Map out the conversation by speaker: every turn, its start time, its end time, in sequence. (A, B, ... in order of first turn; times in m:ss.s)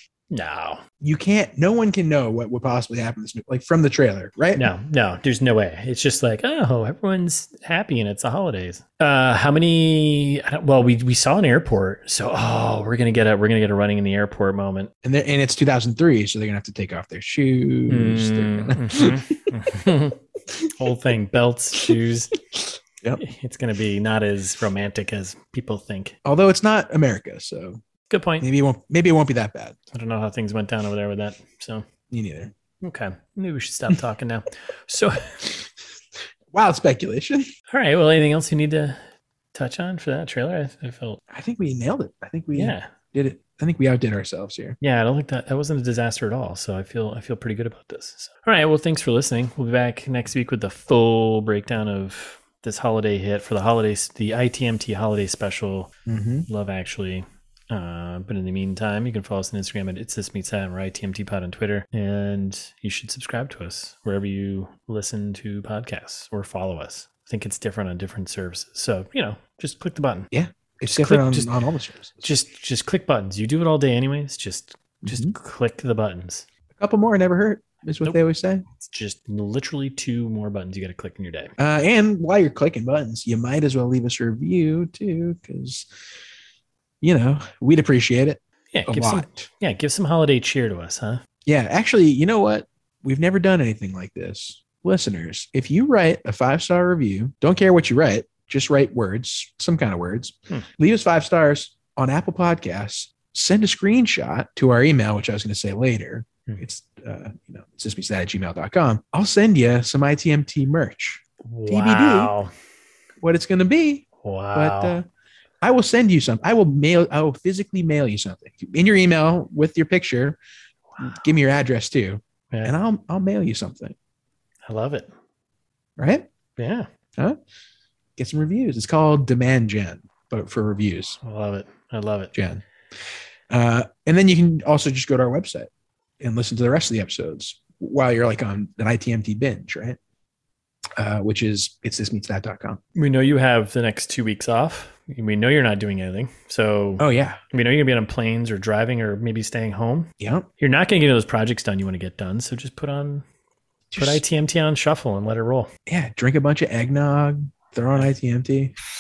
0:00.3-0:00.8 A
0:01.0-0:04.7 B
0:04.6-0:14.9 A
0:15.0-0:19.4 B
0:17.9-0:20.2 A
0:20.7-0:22.3 A
0:23.2-0:26.2 A
0:26.2-0:27.8 B
0:28.1-0:28.5 A
0:28.4-0:29.8 B
0:29.9-0:31.8 A
0:32.1-0:32.5 B
0:32.8-0:35.4 A
0:36.5-0:37.4 B
0:37.7-0:39.0 A
0:39.6-0:41.2 A
0:41.3-0:44.8 B
0:42.5-0:42.9 A
0:44.8-0:55.9 A
0:56.1-0:56.5 B
0:56.5-1:10.3 A
1:10.3-1:12.2 B
1:10.9-1:11.5 A
1:12.2-1:16.5 A
1:15.0-1:15.3 B
1:16.8-1:18.6 B
1:18.8-1:21.5 A
1:21.6-1:25.9 B
1:27.0-1:29.5 B
1:28.7-1:31.2 A
1:31.5-1:52.3 B
1:51.4-1:52.5 A
1:53.2-1:55.0 B
1:54.2-1:55.0 A
1:55.6-2:00.4 B
2:00.9-2:01.2 A
2:01.0-2:04.0 B
2:04.7-2:05.1 A
2:06.0-2:06.3 B
2:06.6-2:06.9 A
2:08.2-2:11.2 B
2:11.2-2:12.3 A
2:12.3-2:12.6 B
2:13.5-2:15.7 B
2:16.2-2:20.0 B
2:21.0-2:22.8 B
2:23.0-2:33.2 A
2:27.0-2:27.4 B
2:30.2-2:30.5 B
2:33.9-2:34.2 B
2:34.0-2:35.7 A
2:35.9-2:38.7 B